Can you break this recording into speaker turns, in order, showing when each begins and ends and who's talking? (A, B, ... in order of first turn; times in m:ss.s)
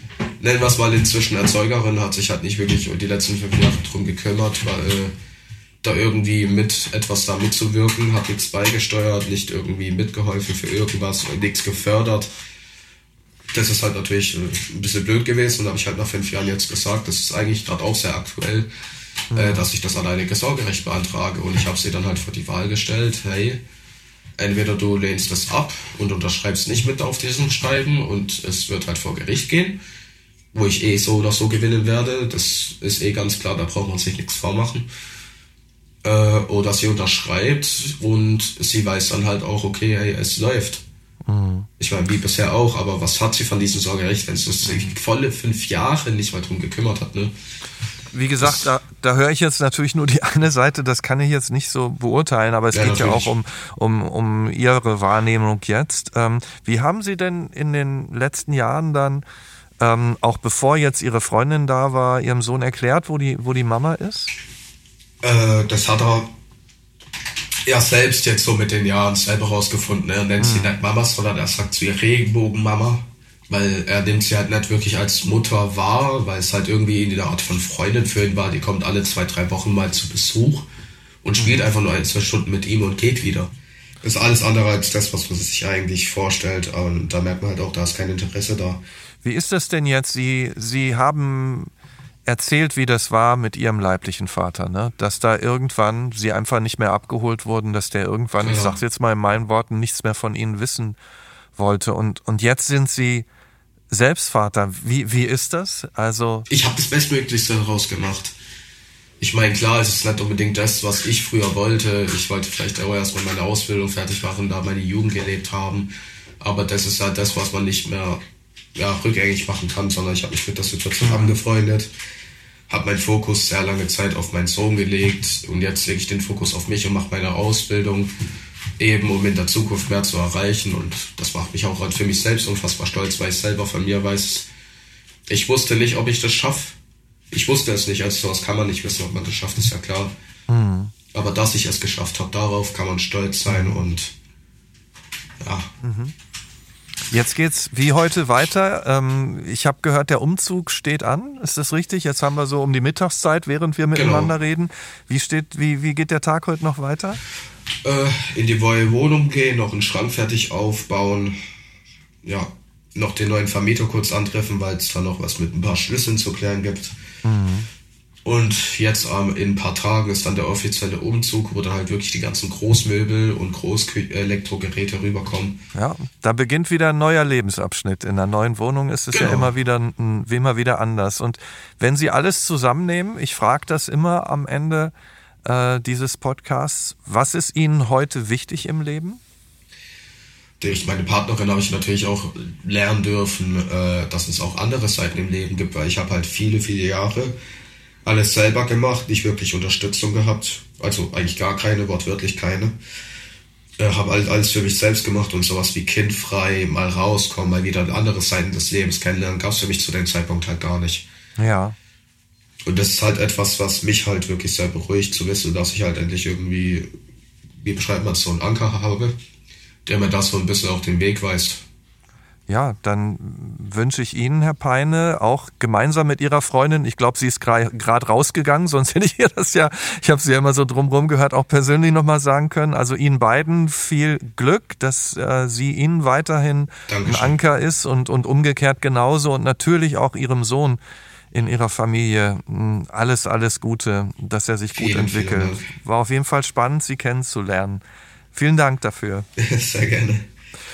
0:00.4-0:05.1 A
0:05.8-0:12.3 A
0:13.5-0:18.7 A
0:19.3-0:23.6 A
0:19.3-0:19.7 B
0:24.4-0:29.8 A
0:30.5-0:34.9 A
0:36.0-0:40.8 A
0:41.2-0:41.7 B
0:41.8-0:47.3 A
0:44.6-0:45.0 B
0:48.1-0:59.2 B
0:52.7-0:53.3 A
0:59.8-1:04.3 B
1:05.2-1:06.3 A
1:07.6-1:20.6 A
1:10.4-1:10.8 B
1:21.2-1:23.5 A
1:24.0-1:28.8 A
1:29.2-1:31.7 B
1:32.3-1:41.0 B
1:38.4-1:38.8 A
1:41.6-1:43.3 B
1:43.9-1:46.5 B
1:46.5-1:48.3 A
1:49.2-1:58.2 A
1:58.7-2:01.9 A
2:01.0-2:01.4 B
2:02.7-2:08.1 A
2:08.8-2:14.5 A
2:15.3-2:16.8 A
2:17.3-2:20.1 A
2:20.5-2:20.9 B
2:21.1-2:24.1 A
2:23.5-2:23.8 B
2:25.4-2:25.7 A
2:25.8-2:26.1 B
2:27.1-2:37.2 B
2:33.9-2:34.3 A
2:37.8-2:41.4 A
2:42.2-2:47.0 A
2:47.2-2:47.7 B
2:48.2-2:55.6 A
2:55.7-3:04.9 B
2:59.1-2:59.5 A
3:05.4-3:09.2 B
3:10.6-3:17.4 A
3:18.0-3:22.8 A
3:23.8-3:31.1 A
3:31.4-3:31.8 B
3:32.6-3:36.9 A
3:37.6-3:39.2 A
3:39.8-3:41.6 A
3:42.5-4:00.8 B
3:56.9-3:57.4 A
4:01.3-4:09.2 B
4:04.7-4:05.7 A
4:09.4-4:10.3 A